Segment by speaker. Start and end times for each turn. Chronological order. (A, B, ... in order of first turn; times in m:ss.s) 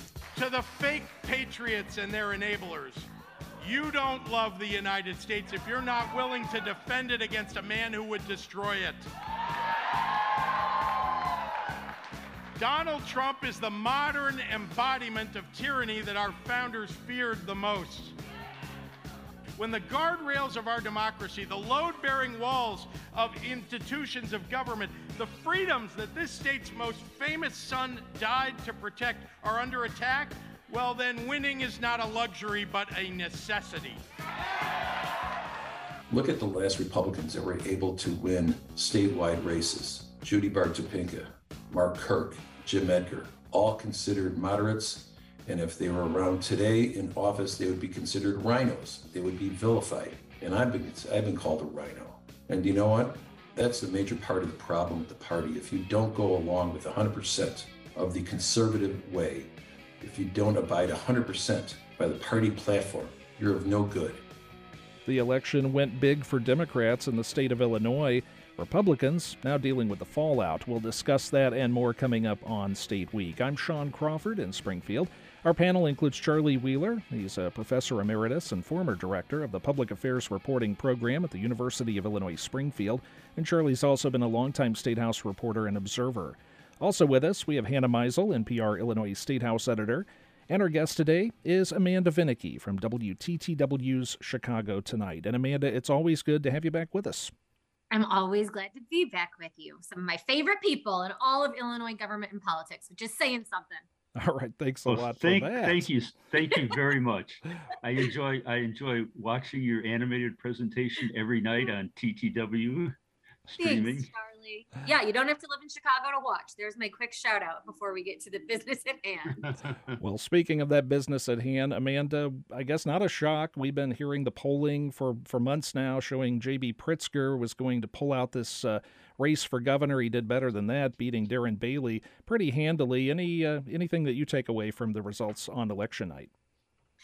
0:00.4-0:03.1 A
0:03.6-0:09.1 A
0:12.6-0:18.2 A
0:19.6-0:34.0 A
0:36.1-1:04.2 B
1:05.1-1:37.3 C
1:37.9-1:43.8 D
1:44.2-1:45.9 C
1:44.9-1:53.0 E
1:53.5-1:54.1 E
1:53.6-1:59.5 D
2:00.0-2:16.3 C